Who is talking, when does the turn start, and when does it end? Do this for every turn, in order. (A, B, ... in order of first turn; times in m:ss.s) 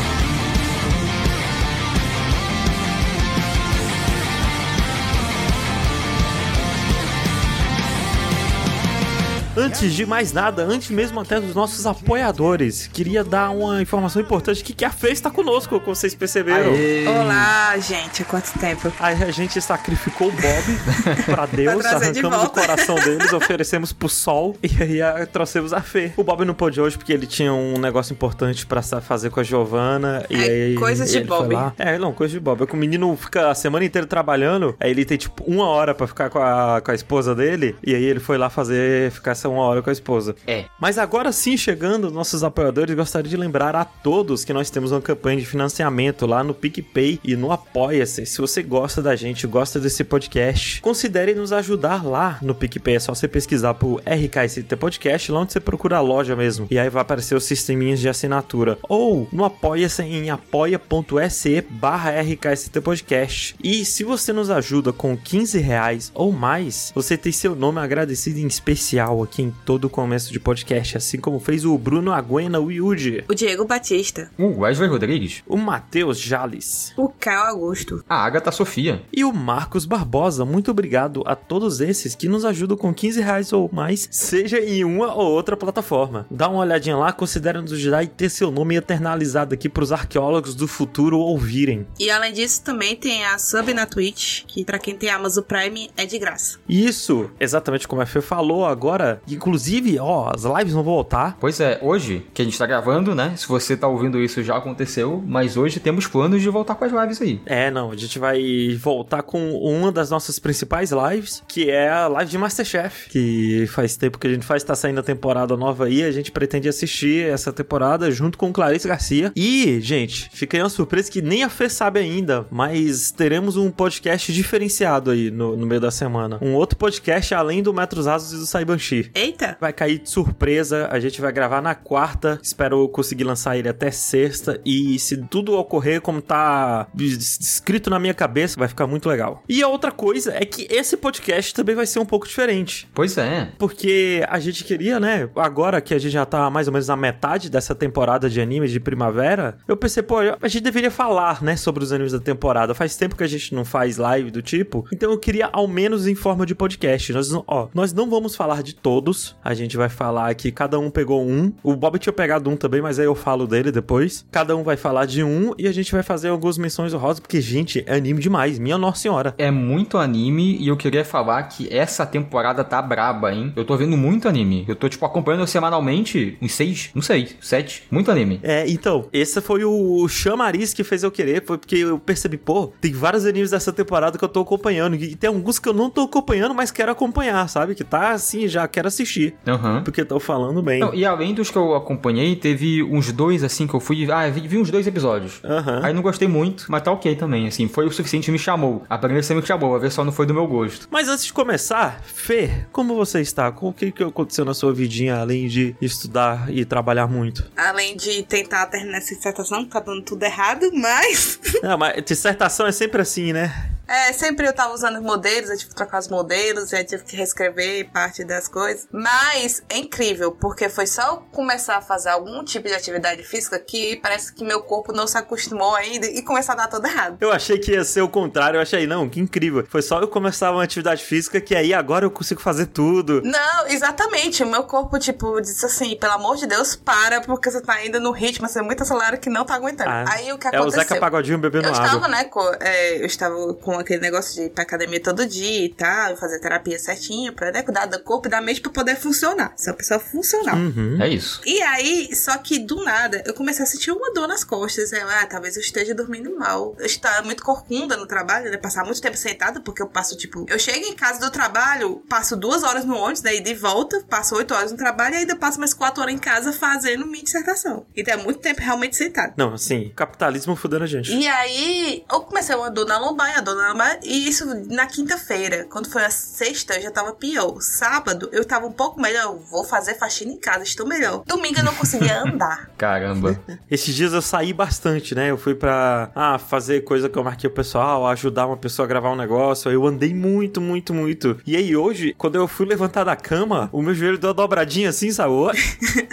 0:09.5-0:16.8 A
0:16.5-0:17.5 B
0:17.0-0:19.0 C
0:19.0-1:13.2 A
0:21.2-0:23.3 C
0:30.3-0:31.7 C
1:13.3-1:14.3 C
1:14.4-1:15.4 B
1:15.5-1:16.9 A
1:17.0-1:18.0 C
1:18.1-1:19.0 B
1:19.1-1:31.9 A
1:32.0-1:36.6 C
1:36.7-1:41.4 A
1:41.4-1:47.4 B
1:47.4-2:22.9 A
2:09.1-2:09.6 C
2:22.9-2:23.5 B
2:23.6-2:49.4 A
2:49.4-2:58.4 B
2:58.4-3:10.9 A
3:09.4-3:09.9 B
3:10.8-3:20.8 B
3:15.4-3:15.9 A
3:20.9-3:27.5 A
3:27.6-3:31.5 C
3:31.6-3:33.5 A
3:33.9-3:47.2 C
3:47.2-3:53.2 A
3:53.2-4:01.1 C
3:59.8-4:02.1 A
4:01.6-4:10.6 C
4:10.5-4:11.0 A
4:11.0-4:11.4 B
4:11.4-4:29.3 C
4:29.4-4:31.2 A
4:31.1-4:42.7 C
4:41.7-4:43.4 B
4:43.5-4:55.6 A